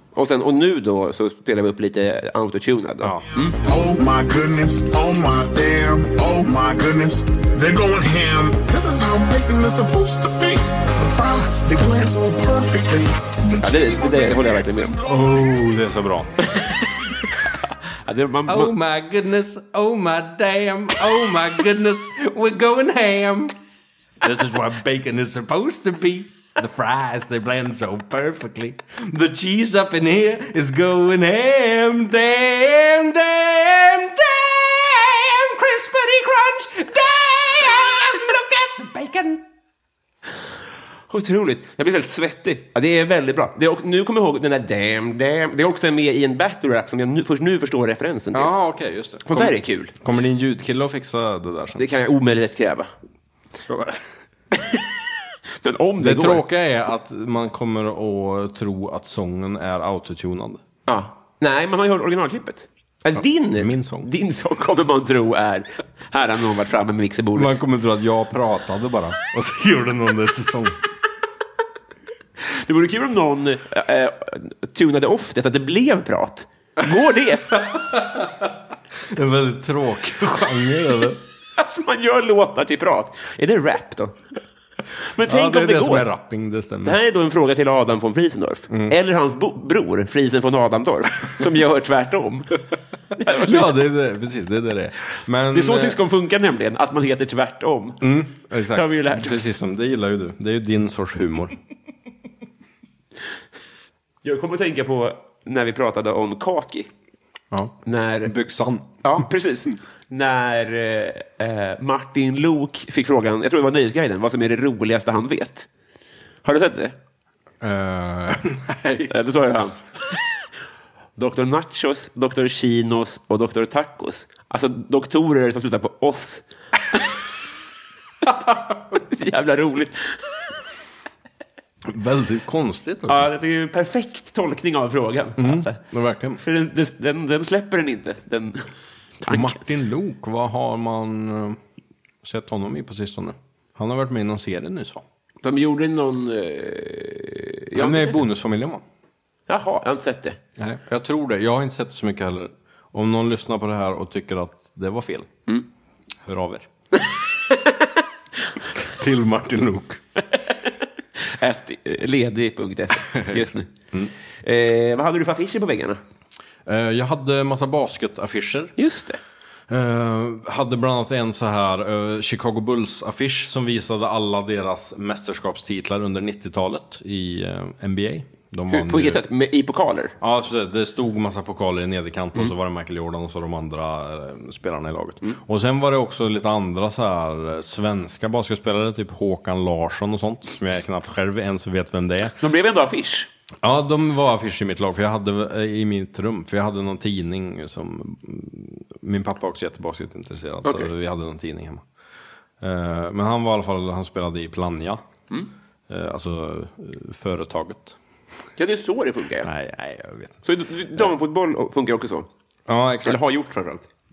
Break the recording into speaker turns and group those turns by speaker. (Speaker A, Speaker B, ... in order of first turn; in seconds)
Speaker A: 0.1-3.5, 13.6-14.9, 18.0-18.7, 41.1-48.5, 49.2-49.9, 51.8-52.9, 55.6-56.4, 60.9-67.6, 72.4-77.5, 81.6-84.2, 85.0-86.1, 86.8-92.6, 93.2-93.7, 95.5-98.2, 98.7-99.5, 104.2-106.9, 107.8-108.3, 109.0-115.7, 116.4-117.0, 119.1-119.8, 121.2-126.5, 128.9-130.2, 133.1-135.8, 136.4-138.7, 139.2-139.6, 145.4-148.2, 149.5-150.4, 161.2-163.7, 164.4-166.0, 168.8-169.2, 178.7-180.1, 192.4-193.3, 200.6-200.9, 208.6-209.5, 210.4-212.3, 213.0-213.8
Speaker B: 3.0-3.3, 15.0-16.6, 18.5-23.5, 24.2-39.4, 48.3-51.8, 53.7-54.0, 56.0-60.6, 63.2-64.1, 67.3-70.8, 77.5-78.5, 79.1-81.2, 85.2-87.0, 88.7-89.0, 93.2-96.0, 98.0-101.5, 107.5-109.2, 117.6-119.1, 131.9-133.3, 135.4-136.4, 139.3-141.6, 142.2-145.0, 147.7-148.8, 150.6-155.3, 156.2-156.7, 158.8-160.0, 166.7-168.7, 169.7-179.2, 180.2-192.4, 193.6-201.8, 202.6-205.0, 205.9-208.0, 209.4-210.4, 212.7-213.3
Speaker C: 3.4-15.1